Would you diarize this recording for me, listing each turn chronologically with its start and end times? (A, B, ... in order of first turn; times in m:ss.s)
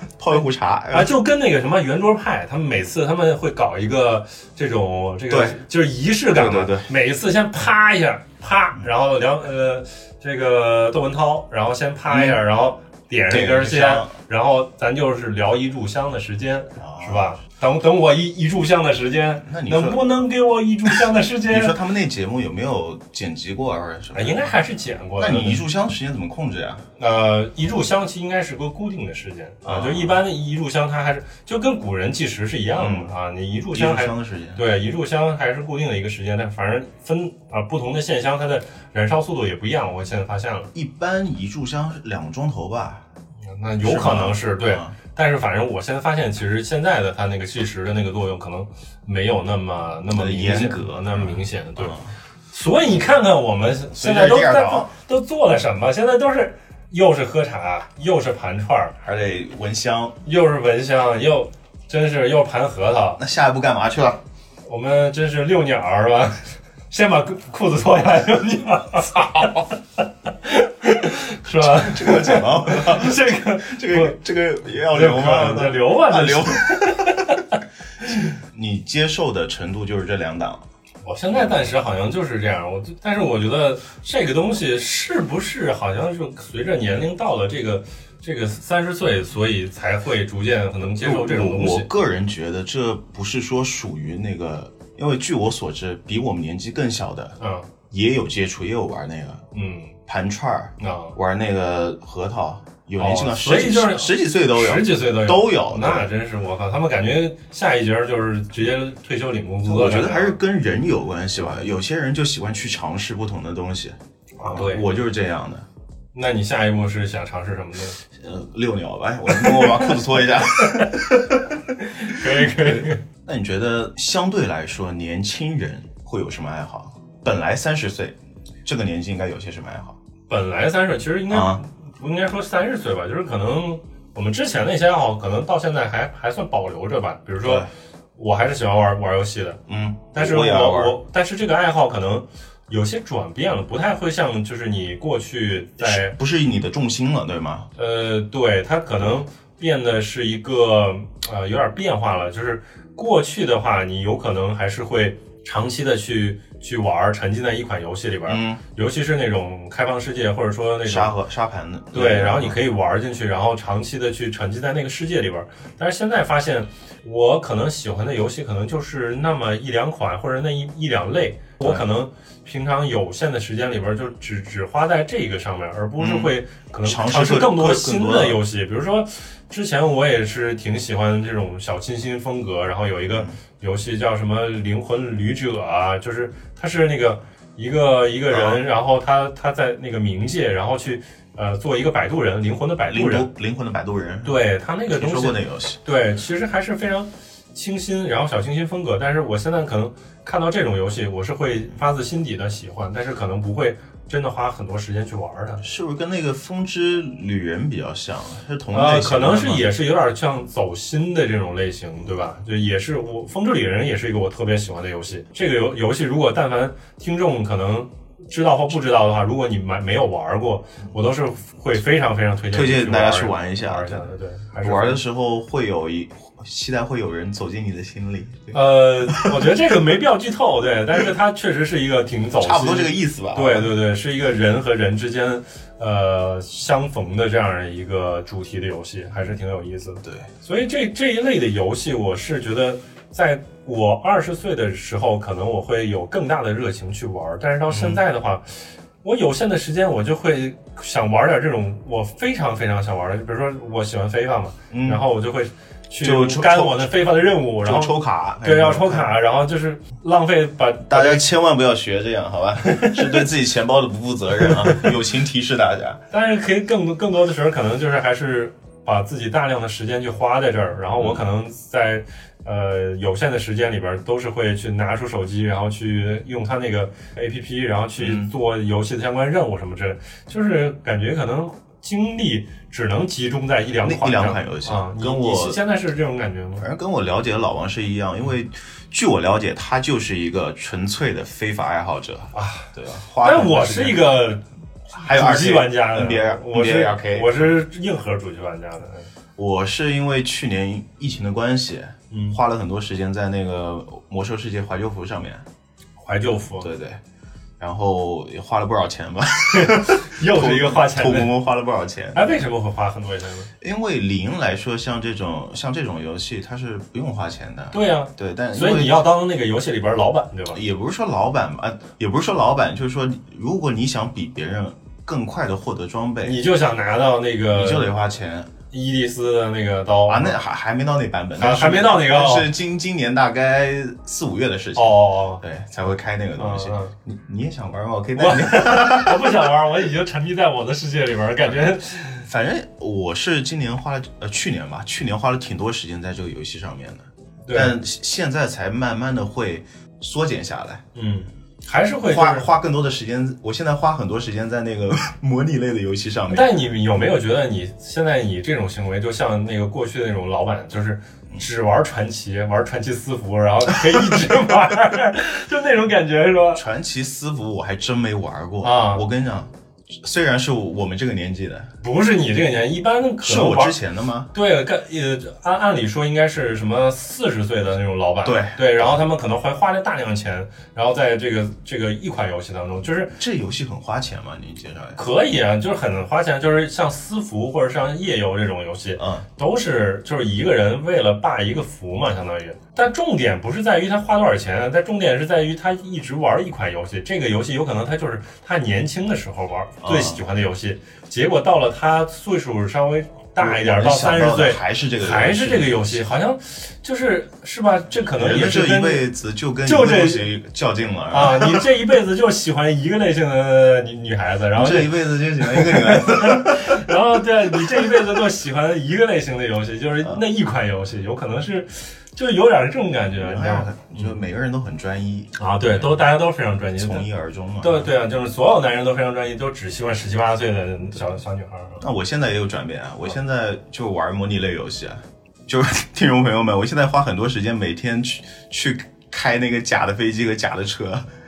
0:00.2-0:01.1 A
0:00.9-0:21.7 B
0:05.3-0:05.6 A
0:06.3-0:06.9 A
0:12.1-0:12.4 A
0:13.3-0:14.1 A
0:16.8-0:17.4 A
0:19.4-0:20.1 A
0:21.4-0:24.5 A
0:24.1-0:25.6 B
0:25.2-0:26.8 A
0:27.0-0:40.7 B
0:29.6-0:30.2 A
0:32.7-0:33.1 A
0:33.7-0:34.6 A
0:40.7-0:43.0 A
0:43.5-0:52.0 B
0:43.8-0:44.9 A
0:50.1-0:52.1 A
0:52.5-0:59.0 B
0:53.9-0:54.9 A
0:59.0-1:00.2 A
1:00.2-1:03.2 B
1:03.2-1:04.2 A
1:04.6-1:09.7 B
1:10.3-1:14.2 B
1:11.5-1:17.2 A
1:14.9-1:18.3 B
1:18.2-1:20.6 A
1:21.0-1:31.9 B
1:21.3-1:21.7 A
1:31.0-1:37.4 A
1:37.4-1:37.7 B
1:37.9-1:39.4 A
1:39.5-1:39.9 B
1:40.1-1:46.1 A
1:40.8-1:41.2 B
1:43.0-1:50.4 B
1:49.6-1:55.6 A
1:54.4-1:54.8 B
1:56.1-1:58.0 B
1:58.2-2:01.6 A
1:59.3-2:00.0 B
2:00.6-2:00.9 B
2:01.8-2:03.0 B
2:02.1-2:10.0 A
2:10.3-2:19.6 B
2:11.3-2:11.6 A
2:17.4-2:17.7 A
2:19.7-2:21.0 A
2:20.1-2:26.2 B
2:25.8-2:27.7 A
2:27.8-2:41.1 B
2:38.2-2:38.6 A
2:40.8-2:42.6 A
2:41.9-3:13.3 B
2:51.6-2:51.8 A
2:56.0-2:56.3 A
2:56.8-2:58.4 A
3:08.3-3:08.6 A
3:12.9-3:14.4 A
3:14.2-3:25.6 B
3:14.9-3:15.8 A
3:25.6-3:29.7 A
3:28.7-3:45.0 B
3:42.5-3:44.1 A
3:44.6-3:49.5 A
3:48.5-4:21.2 B
3:52.4-3:53.7 A
4:00.0-4:00.3 A
4:07.7-4:08.0 A
4:14.7-4:15.0 A
4:16.0-4:16.9 A
4:17.6-4:19.1 A
4:20.9-4:26.0 A
4:22.6-4:23.2 B
4:26.1-4:46.7 B
4:38.0-4:38.3 A
4:43.8-4:45.6 A
4:46.6-4:54.1 A
4:52.3-4:52.7 B
4:53.2-4:54.4 B
4:54.9-4:57.5 A
4:54.9-4:59.1 B
4:59.4-5:05.4 A
5:02.1-5:02.4 B
5:06.0-5:06.7 B
5:06.6-5:07.0 A
5:07.6-5:12.4 A
5:09.5-5:11.3 B
5:12.1-5:13.5 B
5:13.6-5:19.0 A
5:17.7-5:20.6 B
5:20.5-5:26.4 A
5:26.2-5:27.9 B
5:27.5-5:28.5 A
5:28.7-5:30.4 B
5:30.1-5:39.4 A
5:31.4-5:32.5 B
5:34.8-5:35.4 B
5:36.4-5:36.9 B
5:38.2-5:42.3 B
5:42.2-5:50.8 A
5:47.5-5:47.7 B
5:50.9-5:52.5 B
5:52.1-5:56.5 A
5:56.3-6:06.6 B
6:03.9-6:04.6 A
6:06.5-6:11.7 A
6:08.6-6:09.0 B
6:11.8-6:13.8 B
6:13.2-6:14.3 A
6:14.3-6:23.1 B
6:18.2-6:18.9 A
6:23.2-6:25.0 A
6:24.9-6:49.0 B
6:29.0-6:29.2 A
6:39.8-6:40.2 A
6:43.4-6:46.1 A
6:48.1-6:51.6 A
6:49.6-6:50.2 B
6:51.1-7:04.1 B
6:54.5-6:56.9 A
6:57.5-6:58.0 A
7:03.2-7:06.0 A
7:05.4-7:07.0 B
7:06.8-7:07.9 A
7:07.6-7:11.8 B
7:11.8-7:21.0 A